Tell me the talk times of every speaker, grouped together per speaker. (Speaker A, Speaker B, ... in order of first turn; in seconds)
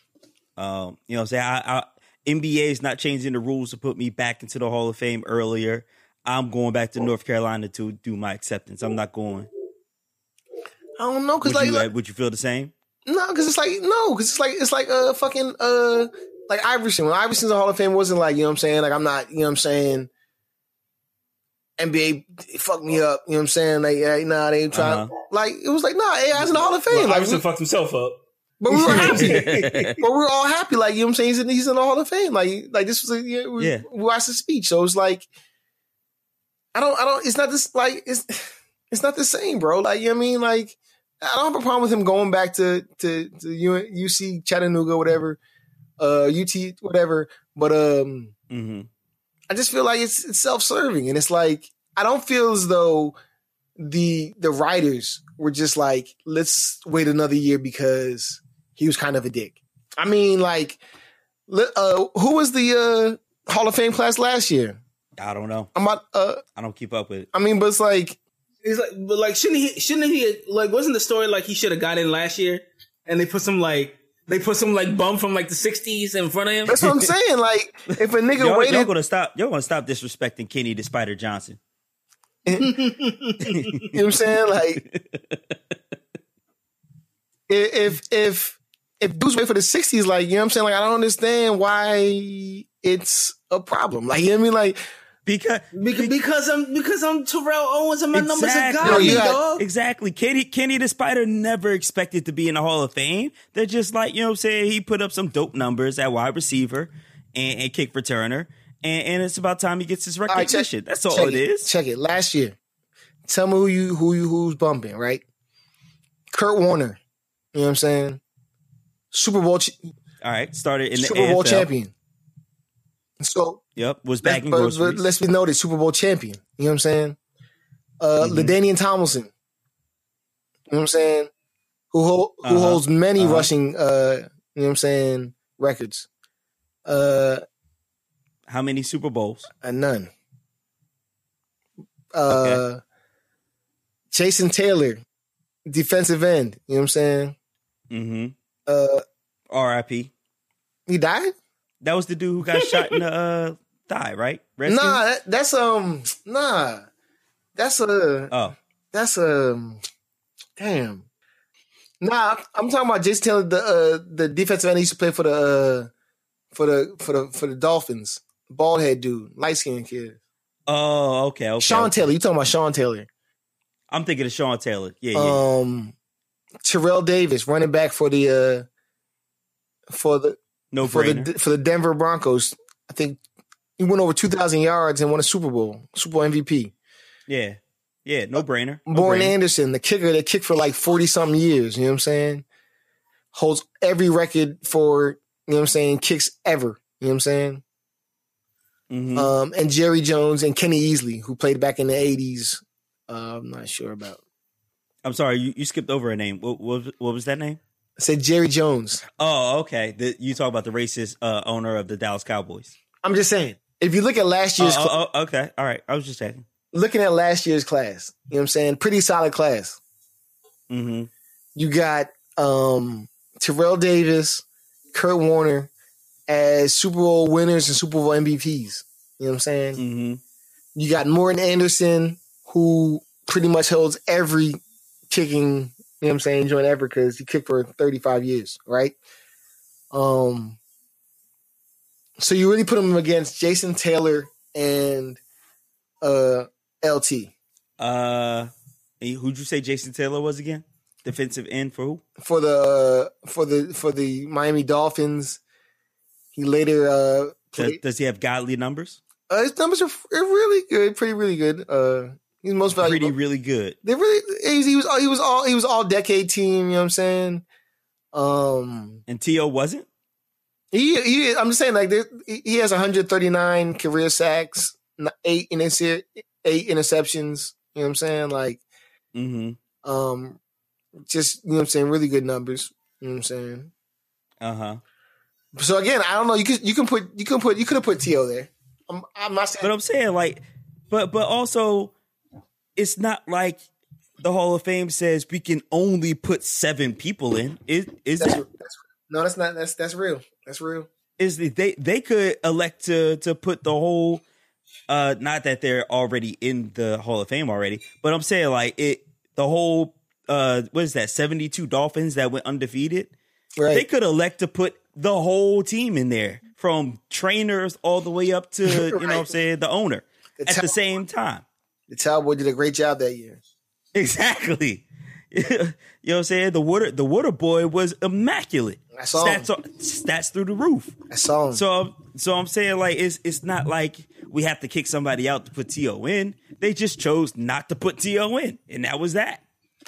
Speaker A: 0.6-9.5, 11.4-12.7, 24.7-25.1, 29.0-29.9, 33.6-33.9, 48.5-48.9, 65.2-65.7, 66.6-67.3, 76.7-77.1, 77.9-81.6, 83.5-84.0, 85.0-85.6, 95.3-96.1, 98.1-111.7, 120.2-121.7, 123.8-125.0, 128.2-128.5, 132.4-133.5, 138.5-139.5, 147.9-148.3, 149.5-150.1, 151.8-155.0, 170.7-172.1, 173.9-175.4, 180.7-181.3, 187.3-189.3, 198.9-199.3, 205.0-207.6, 209.2-212.8, 214.6-216.4, 220.7-221.1, 229.8-230.2, 247.8-252.0, 257.6-259.0, 262.8-263.8, 269.1-269.9, 279.1-279.6, 284.4-284.8, 289.6-291.9, 292.8-293.6, 294.2-298.4, 301.2-304.2, 304.9-313.1, 313.7-321.4, 323.9-330.9, 331.5-339.4
Speaker B: 11.0-11.9, 13.1-20.1, 21.8-27.4, 28.6-35.3, 36.7-45.4, 46.0-48.3, 49.5-53.2, 53.8-60.8, 61.5-64.8, 65.8-66.4, 67.3-68.2, 76.7-78.9, 82.5-82.8, 83.9-84.8, 87.5-94.8, 98.8-99.4, 110.3-112.6, 113.3-115.2, 116.3-117.0, 117.5-118.2, 119.1-119.8, 121.0-121.9, 123.2-123.6, 124.2-127.2, 128.0-129.3, 130.7-131.3, 131.9-136.1, 136.9-137.4, 139.6-140.1, 142.1-142.8, 144.1-145.0, 145.7-147.3, 148.7-149.0, 150.9-151.3, 154.7-156.9, 157.6-158.3, 158.9-159.8, 160.6-161.1, 162.0-165.9, 166.5-170.2, 171.6-173.1, 175.2-175.9, 176.6-178.7, 179.9-183.2, 183.8-186.7, 188.9-192.4, 193.3-197.6, 199.2-204.2, 208.0-209.0, 213.0-215.0, 216.7-219.8, 221.6-225.7, 226.3-229.8, 230.8-239.0, 239.9-240.6, 242.2-245.2, 246.0-247.3, 252.2-255.4, 256.4-257.8, 259.3-263.1, 263.8-267.4, 268.1-269.0, 270.7-278.6, 279.8-280.4, 281.1-283.7, 285.6-289.7, 298.2-300.9, 313.6-313.9, 318.6-319.3, 320.4-320.8, 321.9-323.4, 328.9-329.5, 331.1-331.6
Speaker C: 26.9-28.2, 28.7-29.9, 68.6-76.7, 82.6-83.8, 95.7-99.6